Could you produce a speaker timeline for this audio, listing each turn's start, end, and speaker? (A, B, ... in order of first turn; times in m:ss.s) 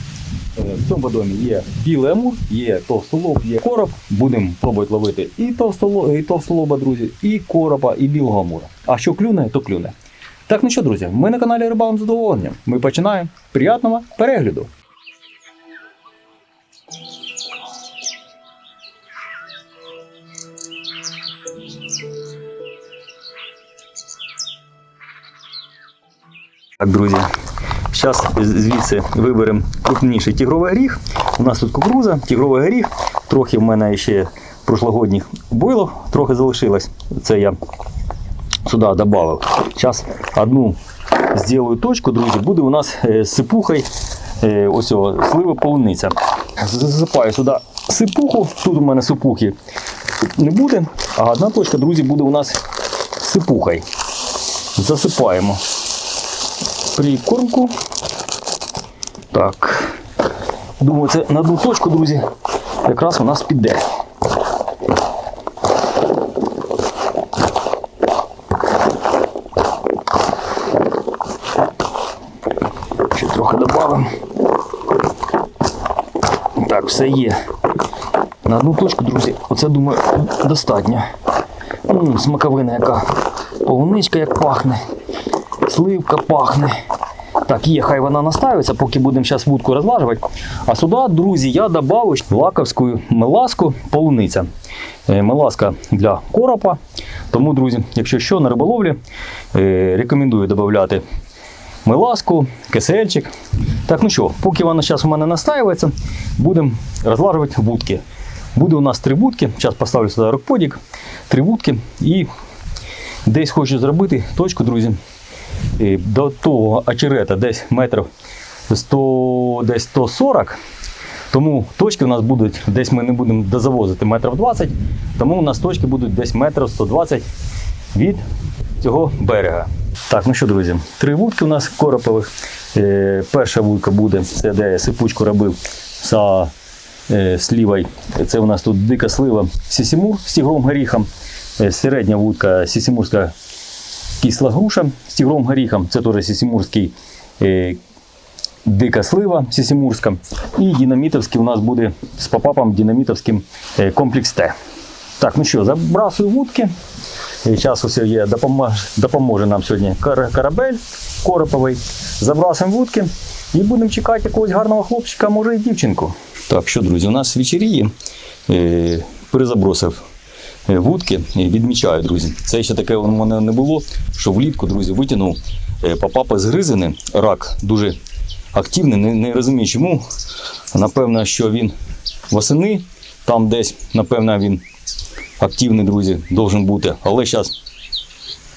0:00.6-0:09.9 A
0:10.5-0:14.7 A
0:26.8-0:27.2 A
0:27.9-0:37.6 A
0:38.6-0:40.8 A
0:41.3-0:43.9 A
0:44.4-0:49.5 A
0:50.2-0:52.6 A
0:53.2-0:53.8 A
0:54.7-0:55.6 A
0:56.9-0:57.7 A
0:59.3-1:00.0 A
1:00.8-1:02.2 A
1:02.8-1:03.8 A
1:13.0-1:14.1 A
1:16.5-1:17.4 A
1:18.4-1:21.0 A
1:21.8-1:24.8 A
1:25.6-1:26.8 A
1:27.4-1:34.5 A
1:35.1-1:36.8 A
1:37.3-1:39.0 A
1:39.5-1:41.0 A
1:41.8-1:48.0 A
1:48.5-1:52.3 A
1:53.2-1:55.0 A
1:55.8-1:58.1 A
1:58.7-2:00.6 A
2:01.3-2:07.2 A
2:07.9-2:08.2 A
2:08.8-2:16.5 A
2:17.1-2:23.3 A
2:24.2-2:27.8 A
2:28.6-2:34.5 A
2:35.2-2:36.7 A
2:37.4-2:47.9 A
2:48.5-2:50.0 A
2:50.7-2:58.0 A
2:58.5-3:00.0 A
3:00.7-3:01.7 A
3:02.3-3:04.6 A
3:05.4-3:07.5 A